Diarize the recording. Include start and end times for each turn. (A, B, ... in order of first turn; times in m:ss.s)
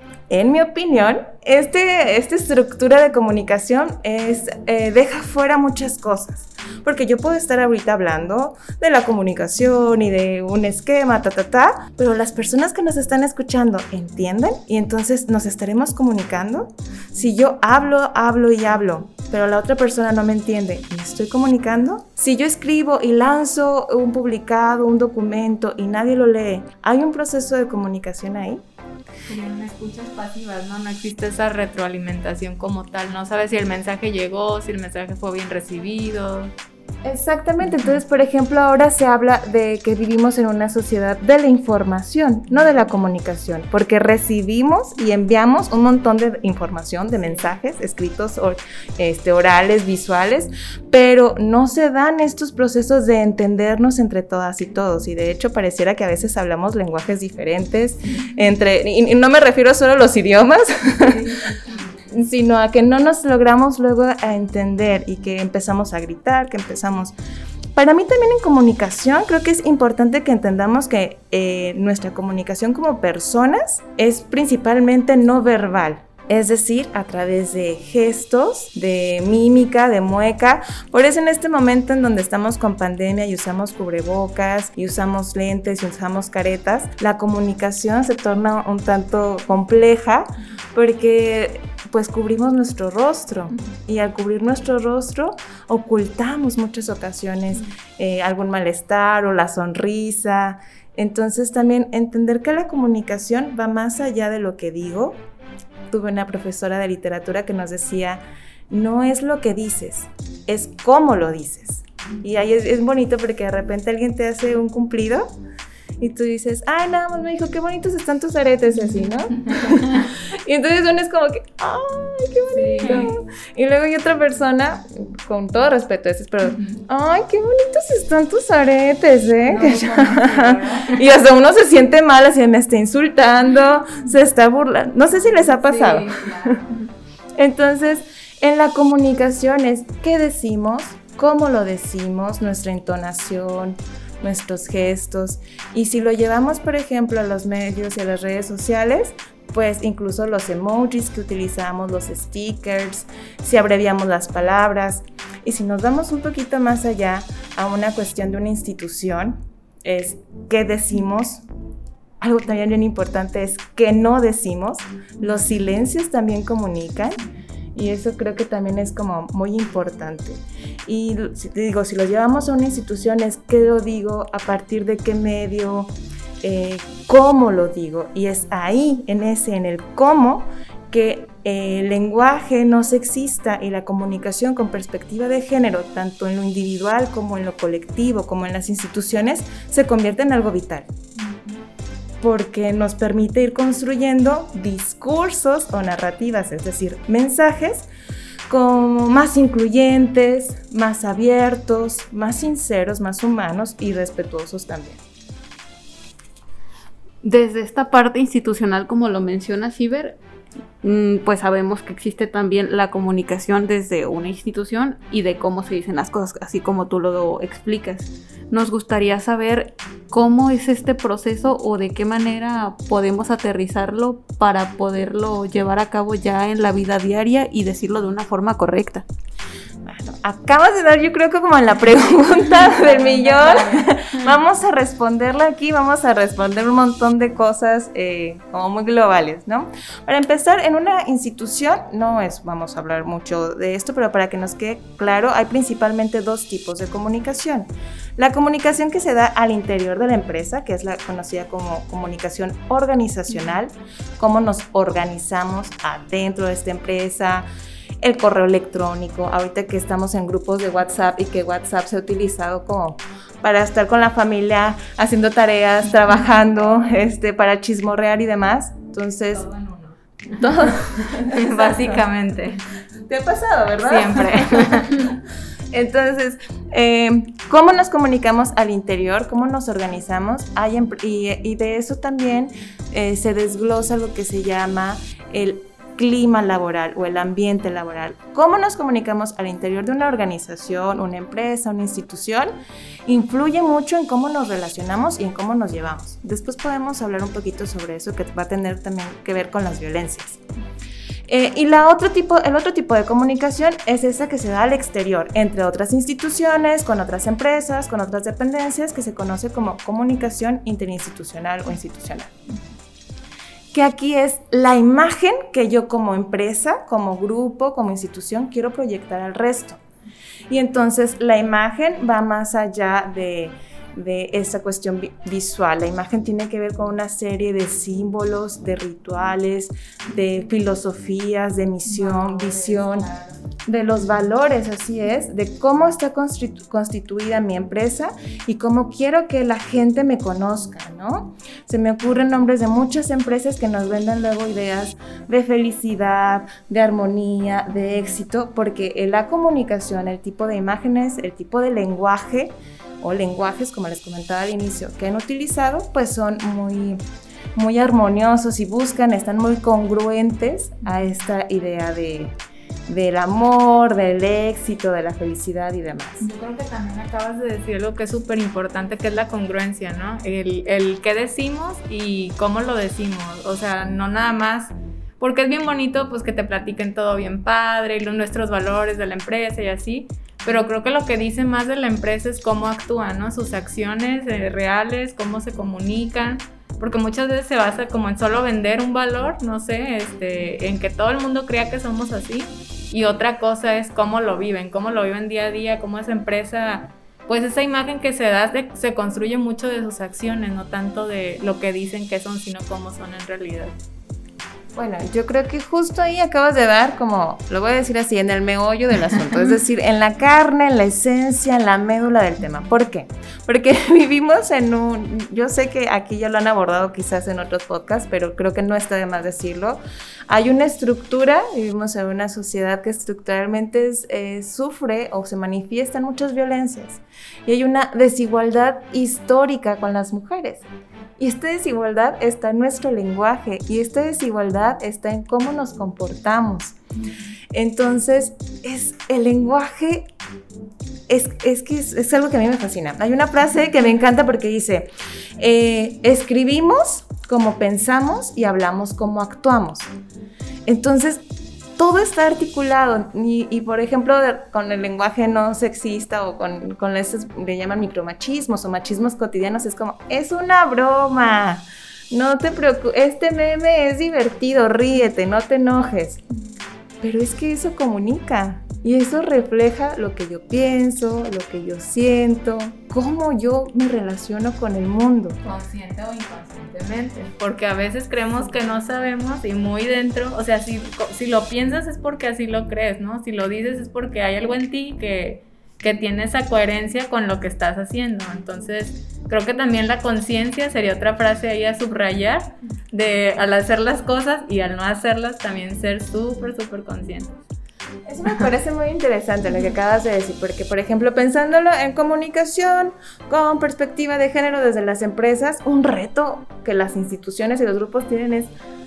0:00.3-0:28.6 A
0:29.3-0:36.5 B
0:37.0-1:01.2 A
0:47.2-0:47.5 B
1:01.2-1:01.7 B
1:02.1-1:07.1 A
1:07.8-1:45.2 A
1:45.9-1:55.3 A
1:56.0-2:16.6 A
2:02.5-2:03.1 B
2:09.5-2:11.0 B
2:15.4-2:16.6 B
2:17.4-2:41.4 A
2:42.2-2:47.2 A
2:47.8-3:10.9 A
3:12.2-3:17.9 A
3:18.5-3:25.0 A
3:27.2-3:30.2 C
3:30.8-3:49.0 C
3:49.9-4:17.5 A
3:52.5-3:53.9 B
4:18.0-4:29.4 A
4:29.3-4:30.8 B
4:30.4-4:32.0 A
4:31.3-4:32.6 B
4:33.1-4:35.1 A
4:33.8-4:35.0 B
4:35.7-4:52.5 A
4:53.1-5:00.4 A
5:01.3-5:12.3 A
5:13.7-5:19.8 A
5:20.5-5:33.1 A
5:31.9-5:33.3 B
5:33.7-5:57.0 A
5:57.6-6:02.3 A
6:02.9-6:06.3 A
6:06.2-6:43.8 B
6:44.8-7:10.7 A
7:11.2-7:16.8 A
7:17.5-7:20.1 A
7:21.1-7:29.9 A
7:30.7-7:31.2 A
7:31.8-7:46.2 A
7:47.0-7:55.4 A
7:55.4-8:17.4 B
8:18.1-8:28.5 A